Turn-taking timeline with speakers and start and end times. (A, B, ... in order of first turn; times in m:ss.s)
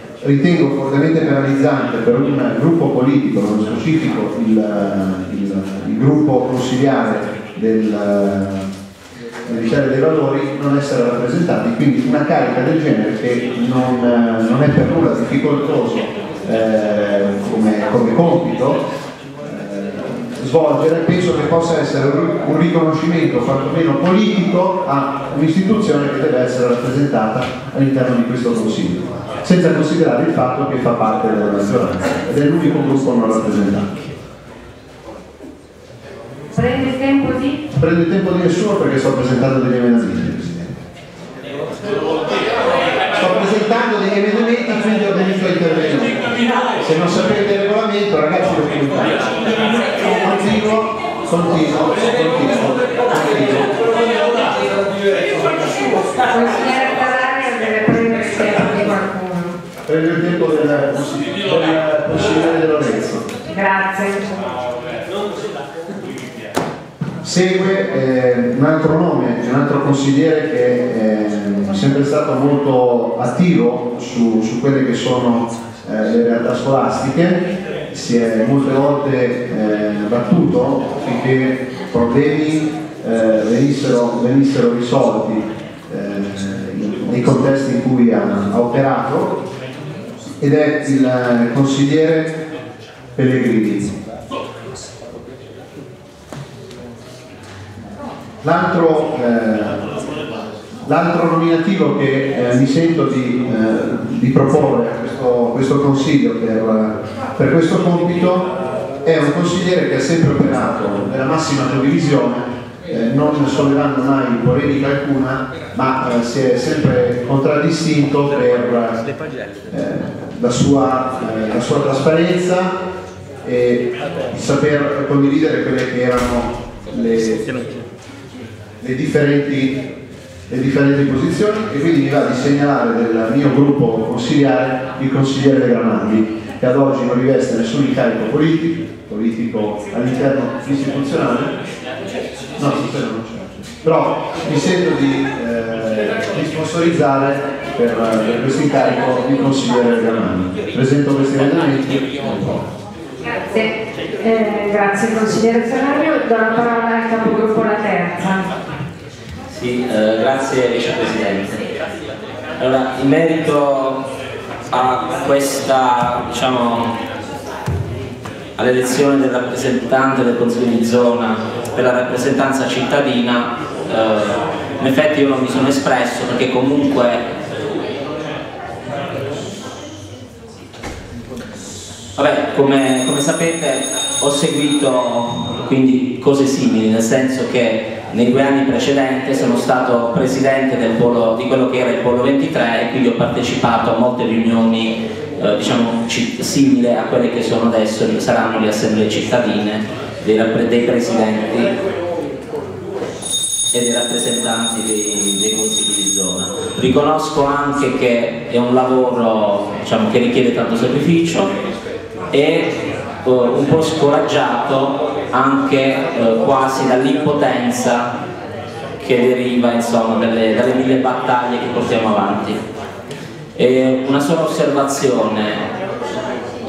0:00.2-0:08.7 A
0:09.4-0:18.8 A
0:19.4-0:34.0 A
0:36.5-0:37.6 B
0:37.8-0:40.7 A
0:43.2-0:53.7 A
0:56.3-0:59.6 B
0:59.8-1:03.2 A
1:03.5-1:04.4 B
1:07.2-1:29.4 A
1:30.4-1:32.4 A
1:33.1-1:33.9 A
1:38.4-1:39.9 A
1:40.8-1:48.5 A
1:49.0-1:59.0 A
1:59.7-2:02.8 A
2:03.4-2:07.5 A
2:08.8-2:09.8 A
2:10.5-2:21.5 A
2:22.6-2:32.7 A
2:33.3-2:38.5 B
2:39.5-2:41.6 C
2:42.6-2:44.0 C
2:44.7-2:46.9 C
2:48.6-2:57.2 C
3:02.2-3:21.8 C
3:23.7-3:31.5 C
3:32.3-3:32.7 C
3:33.2-3:38.1 C
3:39.0-3:42.6 C
3:43.5-3:45.6 C